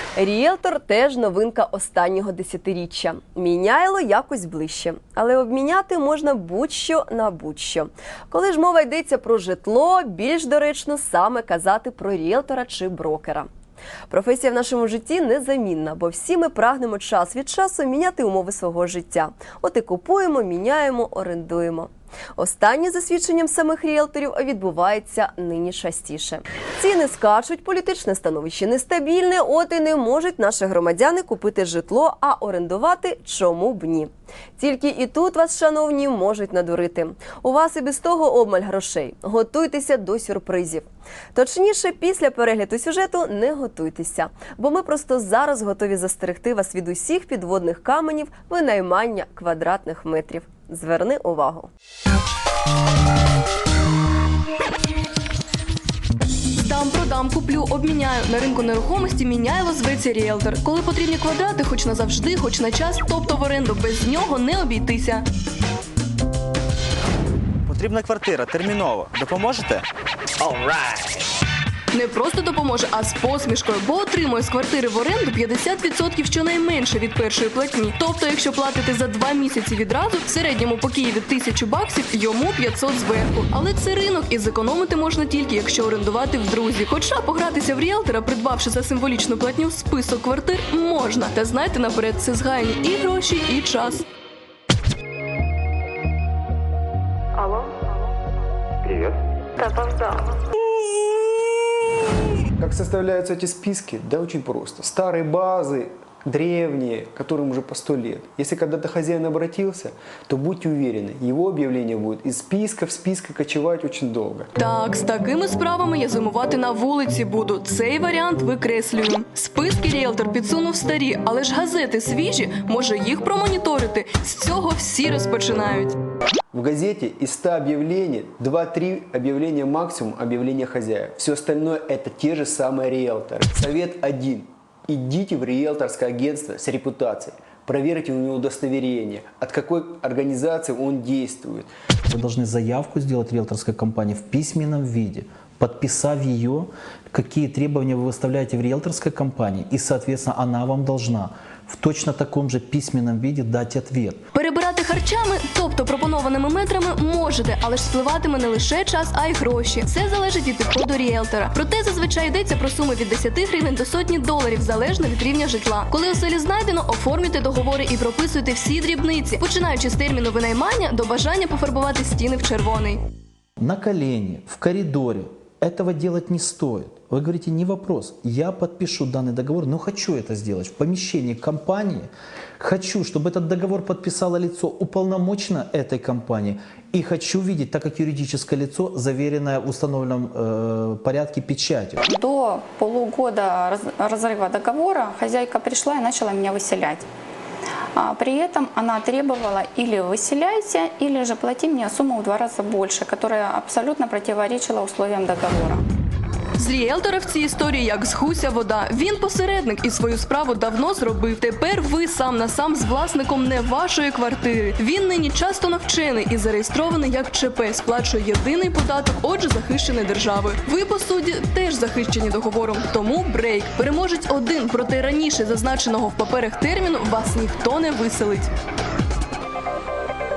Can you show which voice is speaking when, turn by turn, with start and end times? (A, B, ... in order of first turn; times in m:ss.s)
0:00.2-0:13.5 A
0:14.1-0:51.7 A
0:56.6-1:05.2 B
1:07.7-1:09.9 C
1:10.4-1:11.2 C
1:11.9-1:34.1 B
1:42.6-1:54.5 D
1:54.6-2:06.0 B
2:06.5-2:21.7 D
2:22.1-2:34.2 E
2:34.3-2:53.0 B
2:53.6-3:12.0 E
3:12.0-3:17.1 F
3:18.0-3:25.8 F
3:26.6-3:48.5 B